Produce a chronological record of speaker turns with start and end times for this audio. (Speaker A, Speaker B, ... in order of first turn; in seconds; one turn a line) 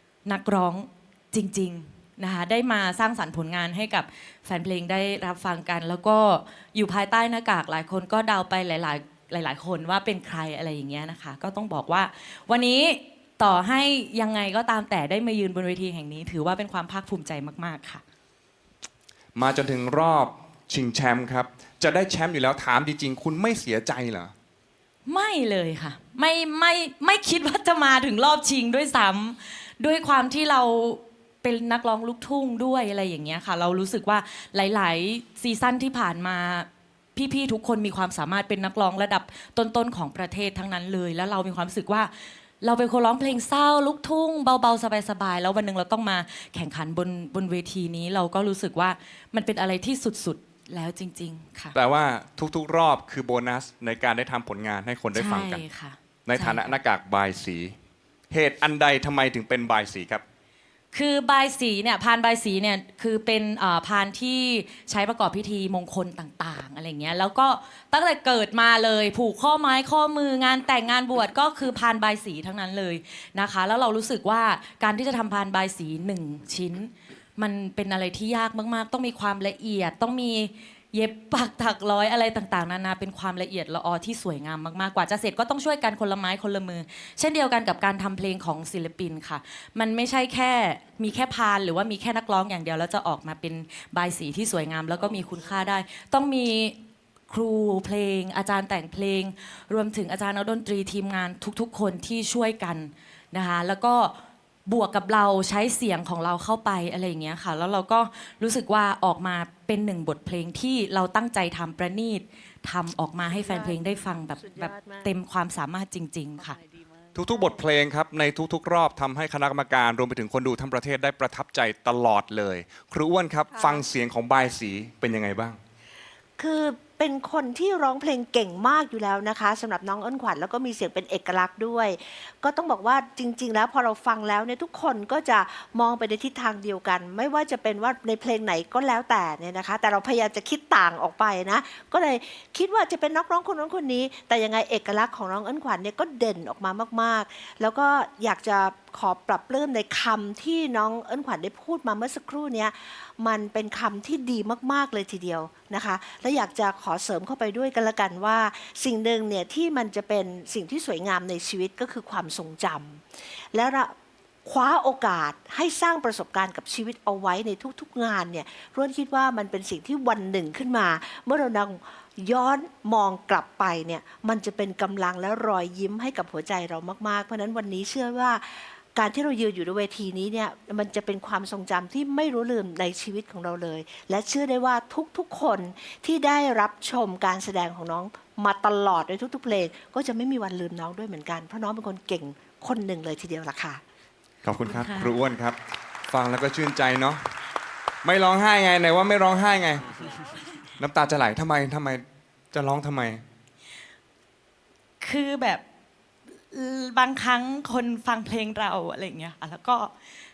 Speaker A: 0.2-18.0
Speaker B: 19.3-24.3
Speaker A: 25.1-51.8
Speaker B: 51.7-55.6
Speaker A: 55.1-56.8
Speaker B: 56.2-57.7
Speaker B: 58.3-60.2
Speaker A: 60.9-96.8
Speaker A: 97.3-104.1
Speaker A: 104.7-116.5
Speaker C: 113.2-115.1
Speaker C: 116.4-117.6
Speaker B: 117.1-125.6
Speaker C: 123.5-123.8
Speaker C: 126.4-163.9
Speaker C: 164.4-193.8
Speaker B: 194.4-195.6
Speaker A: 194.6-195.1
Speaker B: 196.1-197.2
Speaker B: 198.0-199.8
Speaker B: 200.8-203.2
Speaker A: 205.0-205.6
Speaker A: 206.5-209.9